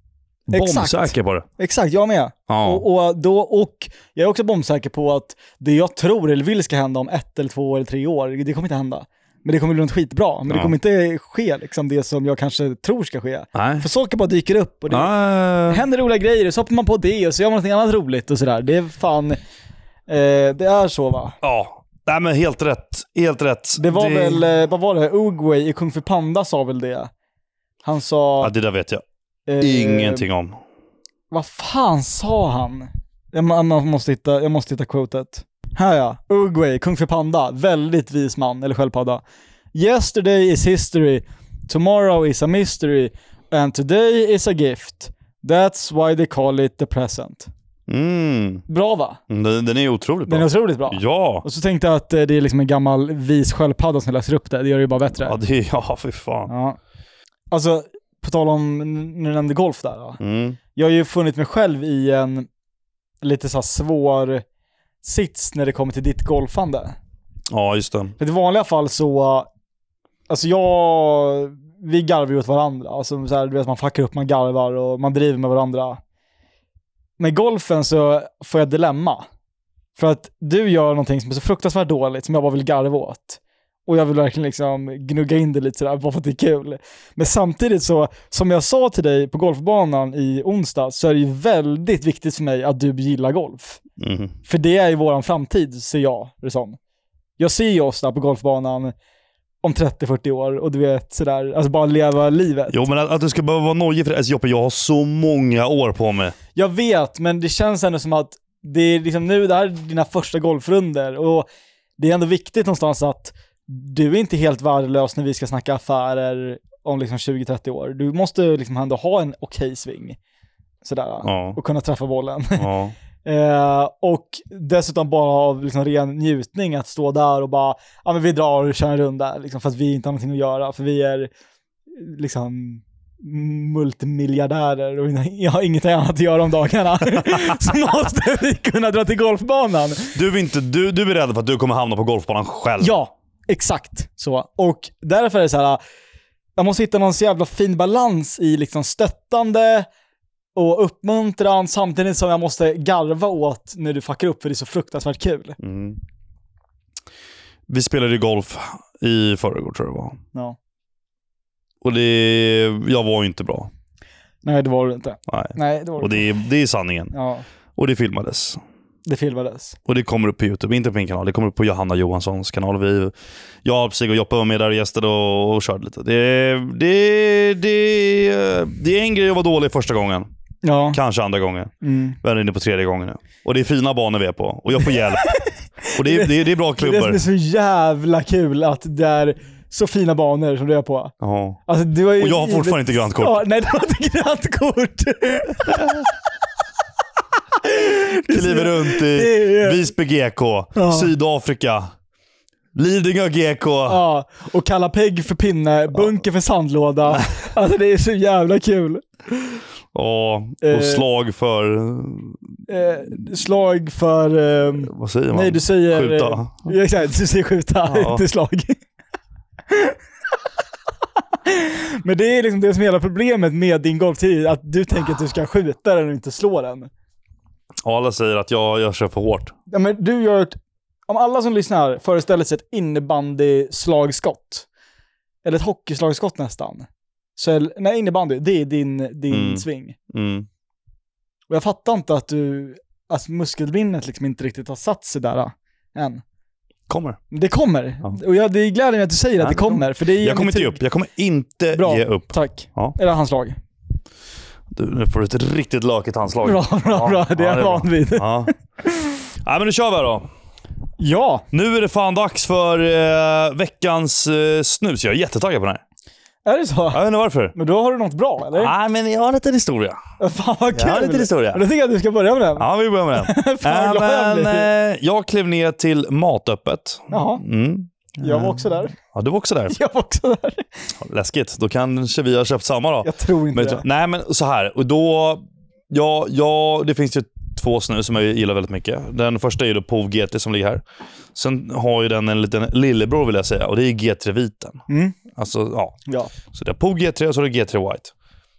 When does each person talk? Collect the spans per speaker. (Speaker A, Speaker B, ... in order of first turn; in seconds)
Speaker A: 0.5-1.4, 2.5-2.8, 13.5-13.8, 14.9-15.8, 21.4-24.4, 28.4-29.0, 29.6-30.6, 47.9-48.6, 49.3-51.4, 55.2-56.5, 60.2-60.6, 67.5-68.2, 94.0-94.3, 102.7-106.3, 121.2-121.6, 122.5-122.9, 140.1-142.9, 155.6-156.0, 157.7-160.2, 161.8-163.7, 165.3-167.1, 167.8-168.6, 169.8-173.1, 173.6-180.3, 180.9-185.3, 185.9-187.2, 191.2-191.6, 192.2-193.4, 198.2-201.9, 202.7-204.0, 207.1-207.4, 209.9-212.4, 214.8-216.7, 217.8-218.2, 227.8-229.5, 239.3-240.5, 246.9-247.2, 249.4-253.0, 254.7-258.5, 259.4-260.3, 261.5-265.8, 266.9-267.5, 268.6-270.0, 270.7-271.6, 272.6-279.8, 281.0-290.8, 291.3-294.8, 295.3-295.9, 296.5-298.1
Speaker B: 0.5-15.2, 15.7-19.4, 20.1-21.4, 23.8-27.1, 27.8-28.5, 29.5-30.3, 31.3-39.2, 39.7-47.5, 48.7-49.2, 50.3-55.4, 56.5-56.8, 57.5-60.2, 60.7-62.5, 63.2-64.4, 65.0-67.0, 68.2-69.5, 70.3-76.0, 77.2-79.2, 80.0-93.8, 94.5-96.8, 97.4-98.9, 99.6-102.8, 106.5-111.5, 112.0-120.2, 120.8-122.7, 123.2-131.3, 131.9-140.1, 142.8-145.8, 146.6-149.9, 150.5-155.6, 164.4-166.3, 167.1-167.4, 169.1-169.8, 180.6-181.0, 181.8-182.2, 184.8-191.1, 191.7-196.1, 197.5-199.9, 200.7-201.1, 203.9-209.6, 210.6-211.0, 212.7-218.8, 219.7-220.0, 221.4-226.9, 229.7-234.7, 235.4-239.9, 241.5-246.2, 247.3-250.8, 251.7-253.6, 256.4-259.2, 261.0-261.4, 266.4-267.0, 267.5-268.7, 270.2-274.7, 277.1-277.4, 278.2-278.9, 279.7-280.7, 283.0-283.8, 294.9-295.2